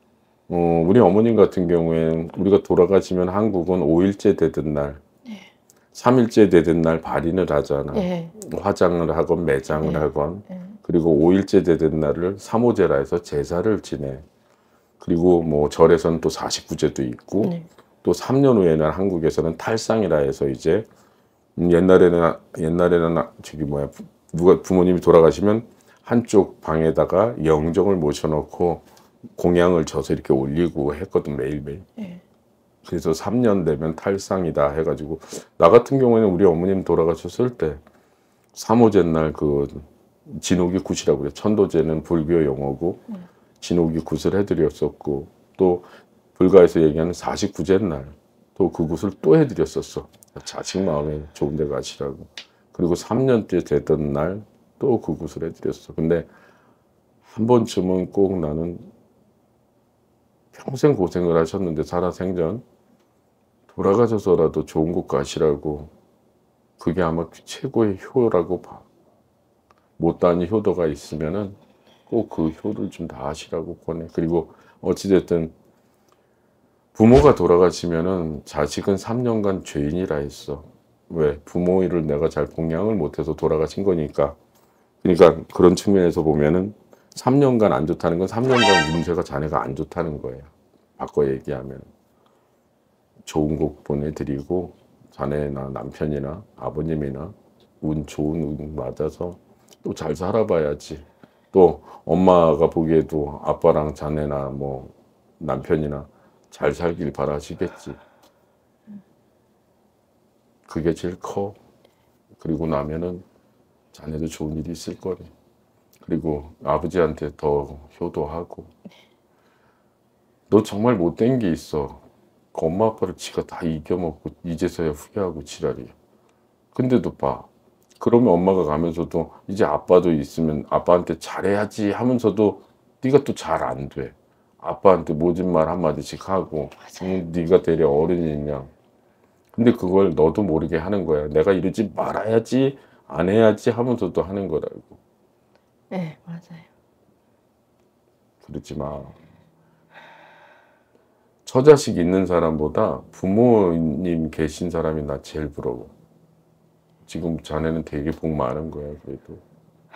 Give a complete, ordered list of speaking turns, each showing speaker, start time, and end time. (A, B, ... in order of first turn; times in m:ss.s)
0:00.5-0:05.0 A
0:05.9-0:14.2 A
0:07.9-0:08.3 B
0:09.8-0:10.0 B
0:15.0-0:20.9 A
0:17.4-0:17.7 B
0:21.6-0:28.8 A
0:29.4-0:31.9 A
0:32.0-0:32.2 B
0:32.8-0:37.8 A
0:38.5-0:43.0 A
0:43.6-0:56.3 A
0:57.3-0:58.9 A
1:00.5-1:02.6 A
1:03.7-1:05.9 A
1:06.8-1:08.9 A
1:10.0-1:11.6 A
1:12.1-1:15.5 A
1:16.9-1:24.4 A
1:25.0-1:31.9 A
1:33.2-1:48.0 A
1:50.7-1:51.6 A
1:52.4-1:53.2 A
1:53.9-1:55.3 A
1:56.0-1:58.7 A
2:00.5-2:02.0 A
2:02.5-2:05.9 A
2:06.7-2:07.5 A
2:08.0-2:18.7 A
2:16.9-2:17.2 B
2:19.6-2:25.0 A
2:25.9-2:26.7 B
2:28.4-2:29.2 A
2:31.4-2:35.9 A
2:37.0-2:39.4 A